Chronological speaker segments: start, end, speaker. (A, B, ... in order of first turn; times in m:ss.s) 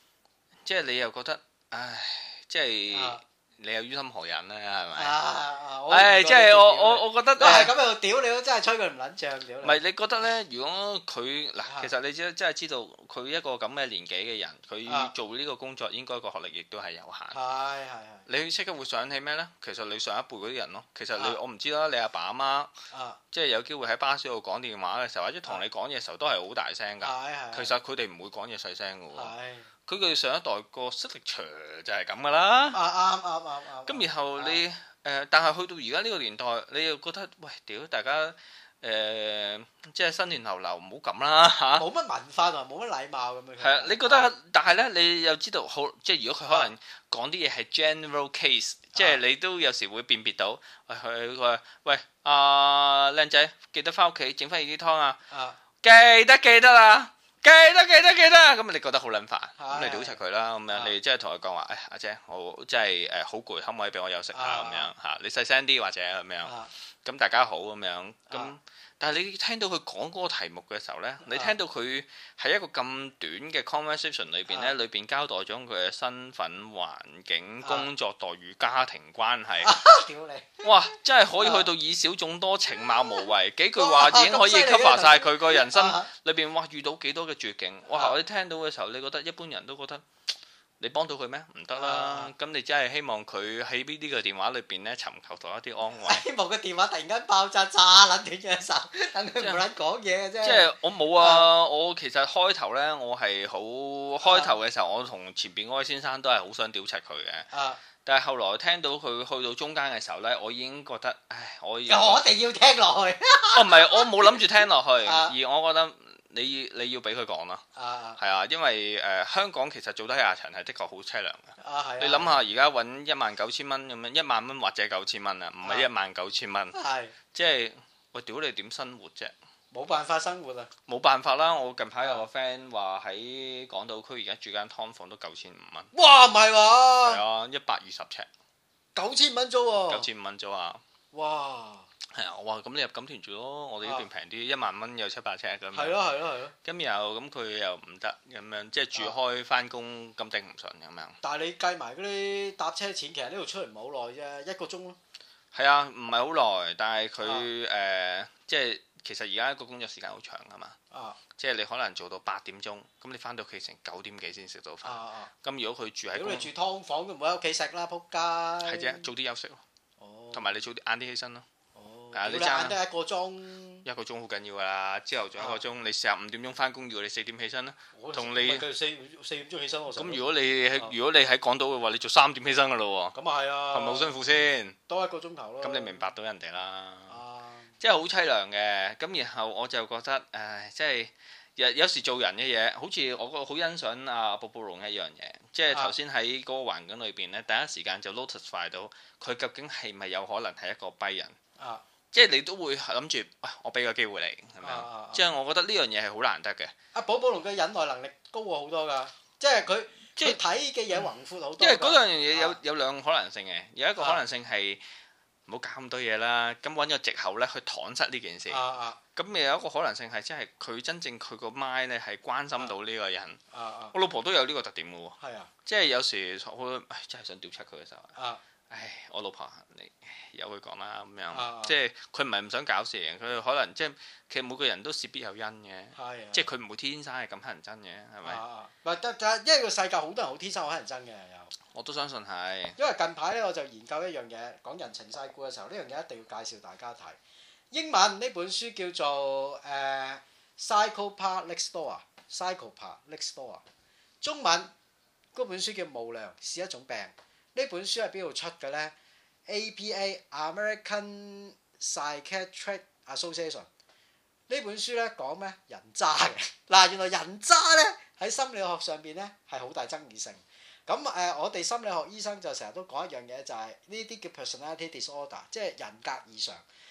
0:00.6-0:05.2 A
0:02.9-0:03.2 B
0:05.0-0:09.8 B
0:05.9-0:07.7 A
0:09.6-0:17.4 A
0:14.9-0:15.1 B
0:17.3-0:18.2 B
0:18.3-0:22.7 A
0:22.9-0:23.2 B
0:23.3-0:29.3 A
0:27.0-0:27.7 B
0:29.1-0:29.7 B
0:29.8-0:32.8 A
0:32.7-0:34.6 B
0:33.8-0:41.8 A
0:41.8-0:44.3 B
0:43.6-0:55.2 A
0:55.3-0:55.6 B
0:55.8-1:19.7 A
0:59.6-1:00.2 B
1:04.3-1:04.9 B
1:06.4-1:06.7 B
1:11.2-1:11.5 B
1:14.5-1:14.7 B
1:17.6-1:17.9 B
1:19.6-1:20.6 B
1:20.6-1:30.0 A
1:21.4-1:21.7 B
1:23.8-1:26.1 B
1:30.8-1:36.2 A
1:31.8-1:32.3 B
1:36.0-1:41.5 B
1:39.4-1:39.6 A
1:40.4-1:47.5 A
1:44.2-1:44.5 B
1:47.5-1:47.8 B
1:48.0-1:52.2 A
1:51.9-1:54.4 B
1:53.5-1:57.6 A
1:55.0-1:55.3 B
1:57.8-1:58.2 B
1:58.2-2:06.8 A
2:01.6-2:02.4 B
2:06.7-2:07.1 B
2:07.3-2:09.3 A
2:09.7-2:10.7 B
2:10.9-2:15.9 A
2:15.9-2:17.2 B
2:17.1-2:18.3 A
2:18.9-2:20.1 B
2:19.9-2:20.8 A
2:21.1-2:21.9 B
2:22.1-2:26.0 A
2:25.7-2:26.5 B
2:26.6-2:31.2 A
2:31.2-2:35.0 B
2:35.5-2:40.8 A
2:37.2-2:37.5 B
2:40.9-2:41.2 B
2:41.4-2:46.5 A
2:44.8-2:45.3 B
2:46.1-2:49.1 B
2:48.6-2:49.6 A
2:50.0-2:50.6 B
2:50.3-2:51.4 A
2:51.8-2:53.8 B
2:52.1-2:52.8 A
2:53.8-2:58.6 A
2:57.9-3:00.2 B
2:59.9-3:03.1 A
3:03.1-3:04.3 B
3:03.7-3:04.8 A
3:04.9-3:06.0 B
3:05.6-3:07.2 A
3:07.1-3:07.7 B
3:07.8-3:21.4 A
3:15.7-3:15.9 B
3:21.6-3:21.8 B
3:22.1-3:26.7 A
3:24.6-3:25.2 B
3:26.9-3:32.6 B
3:31.6-3:34.8 A
3:35.5-3:38.6 A
3:38.5-3:39.0 B
3:39.2-3:43.4 A
3:43.5-3:43.9 B
3:43.9-3:48.1 A
3:45.2-3:45.5 B
3:48.2-3:48.4 B
3:48.7-3:58.4 A
3:51.3-3:51.8 B
3:55.9-3:56.5 B
3:58.2-4:01.5 B
4:01.7-4:02.8 A
4:02.8-4:07.2 B
4:07.7-4:13.6 B
4:14.2-4:14.7 B
4:15.3-4:18.9 B
4:19.5-4:23.7 B
4:24.5-4:36.6 B